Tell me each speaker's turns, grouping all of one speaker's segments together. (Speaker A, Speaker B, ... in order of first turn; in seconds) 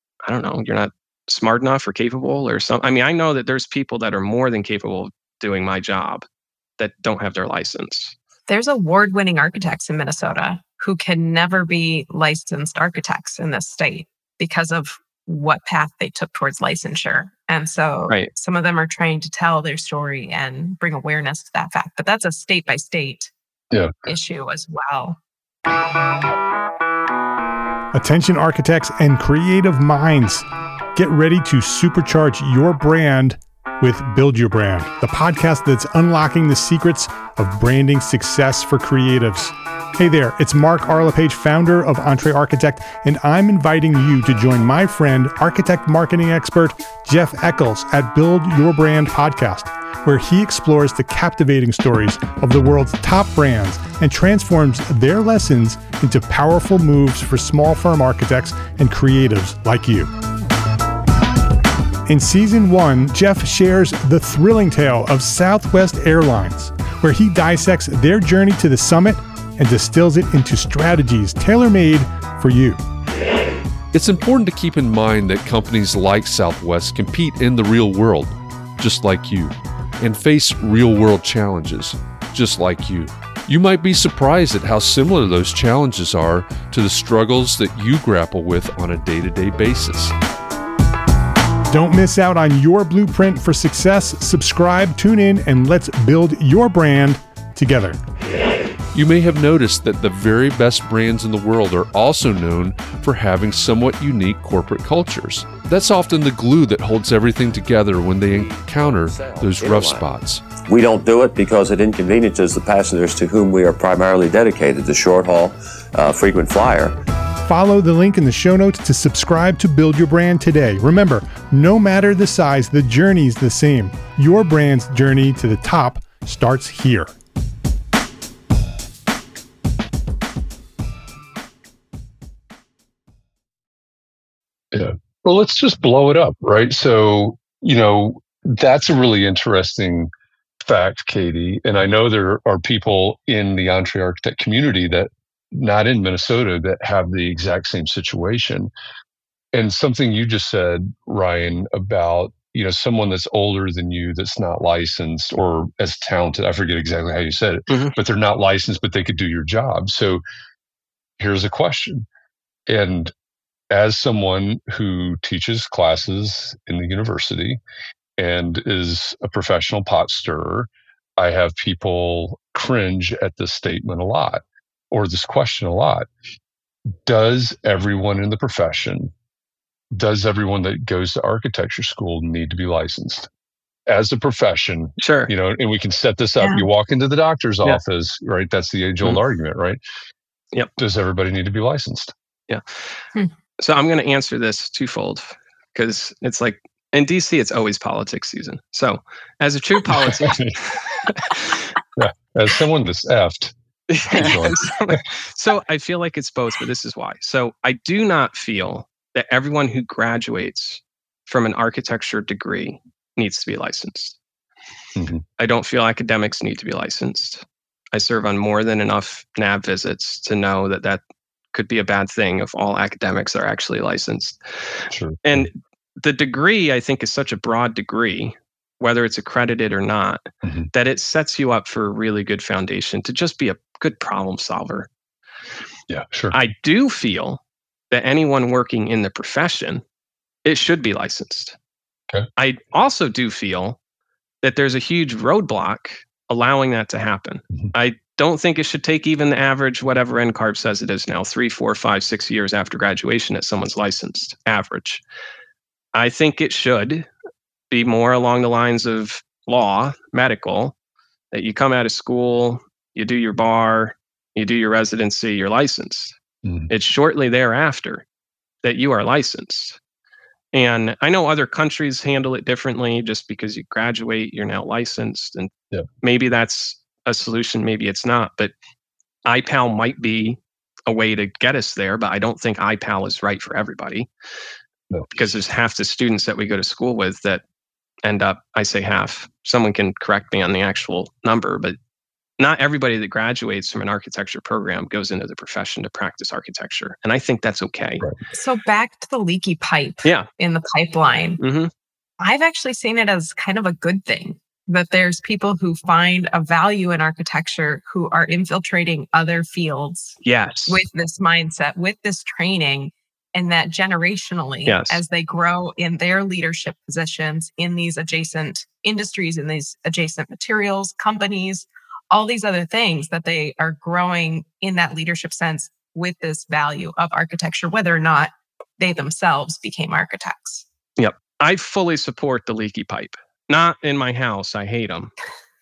Speaker A: 0.2-6.2, 6.8-8.1, 157.7-158.0, 185.0-185.3, 193.6-201.7, 203.9-214.2, 215.4-221.0, 221.5-234.9, 236.3-239.8, 240.4-241.6, 242.4-243.8, 244.4-255.0, 255.9-257.1, 257.7-260.8, 261.3-266.1, 266.7-268.0, 268.6-269.8, 270.5-275.5, 276.0-278.5, 279.2-284.1, 285.1-287.4, 288.1-291.8, 292.4-298.0, 301.4-301.7, 310.2-310.8, 314.6-315.0, 331.0-335.1
Speaker B: 8.5-23.3, 24.1-25.2, 298.3-301.4, 302.2-330.6
Speaker C: 27.9-60.1, 62.1-72.8, 91.7-98.0, 117.5-127.1
Speaker D: 73.9-90.1, 98.9-110.5
Speaker E: 108.3-117.0
Speaker F: 134.7-140.1, 140.6-148.7, 149.5-160.2, 161.2-162.0, 162.7-163.1, 163.7-167.6, 168.2-176.1, 177.1-179.1, 179.9-183.3, 183.9-189.8, 190.8-192.1, 199.9-200.6, 202.0-203.5, 204.1-204.7, 215.0-215.2, 224.9-225.5, 230.4-230.7, 235.9-236.4, 266.4-266.7, 284.9-285.4